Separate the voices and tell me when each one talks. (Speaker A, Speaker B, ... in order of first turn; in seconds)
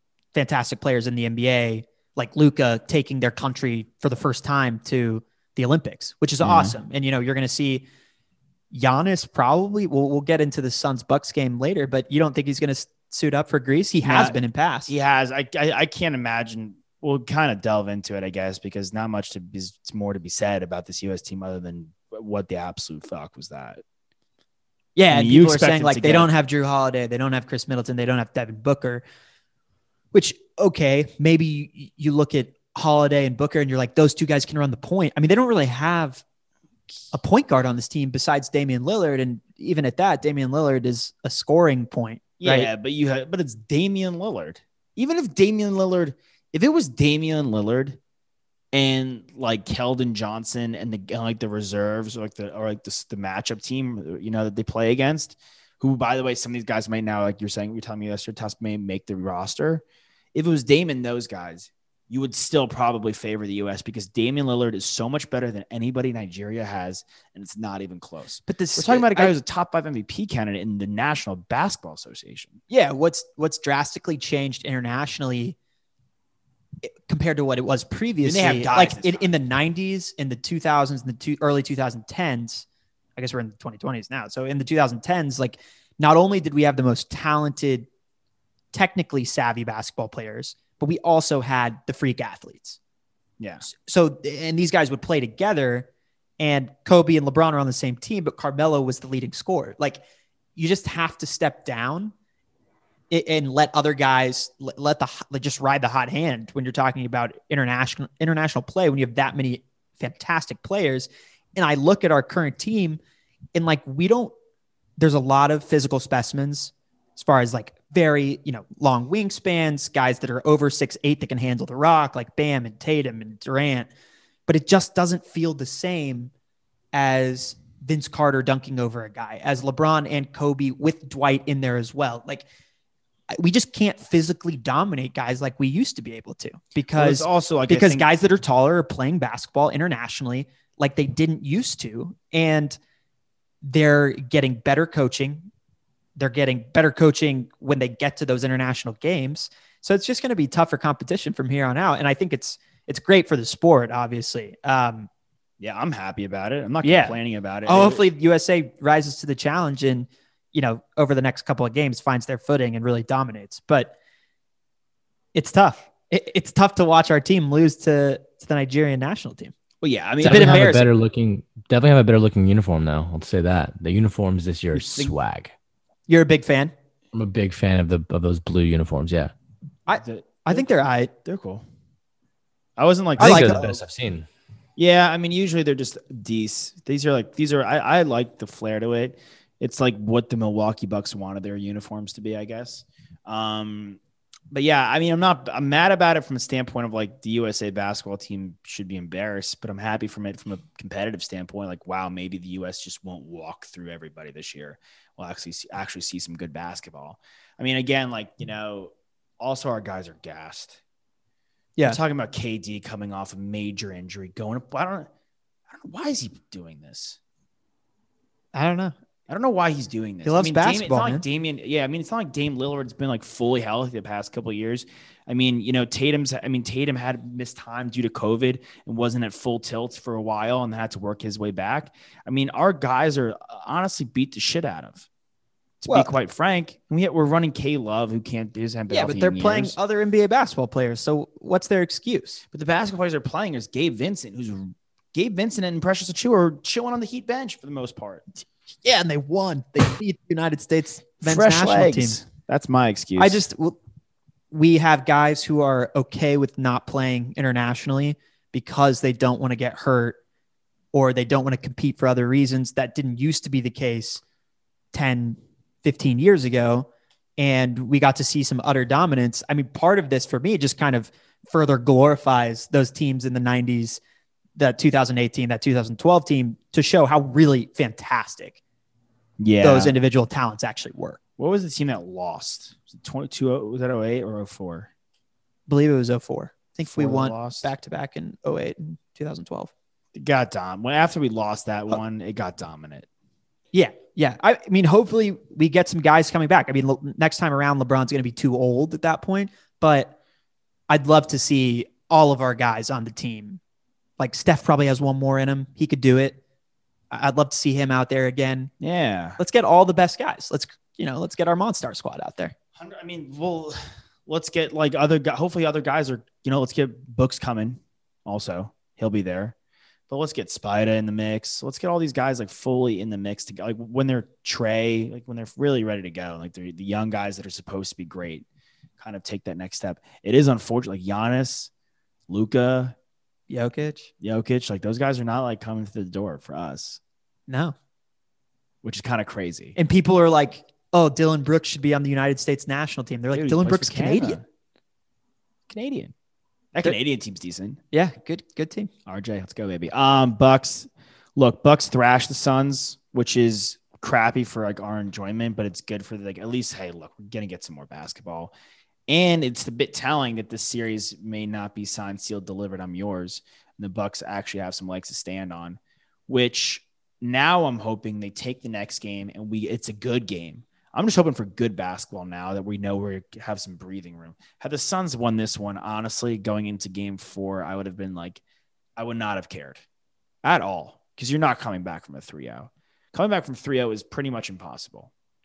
Speaker A: 0.3-7.9, 8.7-14.9, 25.0-29.0, 30.1-36.2, 37.1-42.7, 68.5-69.3, 72.7-75.6, 76.8-82.7, 83.2-87.9, 88.7-92.8, 93.6-95.9, 96.4-100.0, 100.6-102.1, 103.1-113.0, 113.5-114.3, 115.0-123.9, 124.5-126.3, 126.9-132.5, 133.3-142.8, 143.6-145.5, 146.2-155.1, 156.8-163.9, 165.3-169.5, 170.2-170.9, 176.1-176.7, 179.9-181.1, 183.2-183.7, 218.5-218.9, 220.3-221.2, 238.9-242.4, 248.8-252.2, 253.2-253.8, 254.5-260.2, 260.9-264.2, 264.9-266.9, 267.4-274.0, 274.6-278.6, 279.6-281.2, 285.7-289.7, 293.7-300.1, 300.9-303.6, 304.2-306.4, 307.1-308.7, 309.4-312.5, 333.5-334.1, 337.5-337.8, 339.8-344.4, 347.9-348.9
Speaker B: 6.4-6.8, 14.0-14.4, 14.9-23.8, 25.1-26.3, 42.4-48.0, 48.7-72.6, 78.2-79.3, 137.0-138.1, 155.6-158.1, 169.8-170.8, 174.7-175.1, 179.9-180.7, 181.2-181.7, 182.8-183.8, 184.8-194.0, 194.5-210.8, 211.8-215.1, 215.7-217.2, 219.3-235.1, 235.8-239.8, 242.5-248.2, 251.2-253.4, 279.4-280.0, 281.4-284.9, 286.9-287.7, 290.1-293.1, 308.8-309.4, 312.8-319.6, 320.1-328.5, 329.0-331.7, 332.3-332.9, 334.2-337.0, 338.8-339.8, 343.3-344.4, 345.7-346.1, 346.7-347.8, 349.1-358.5, 359.1-378.4, 379.0-379.8, 380.4-385.1
Speaker C: 170.2-175.5, 177.1-179.3, 183.2-184.3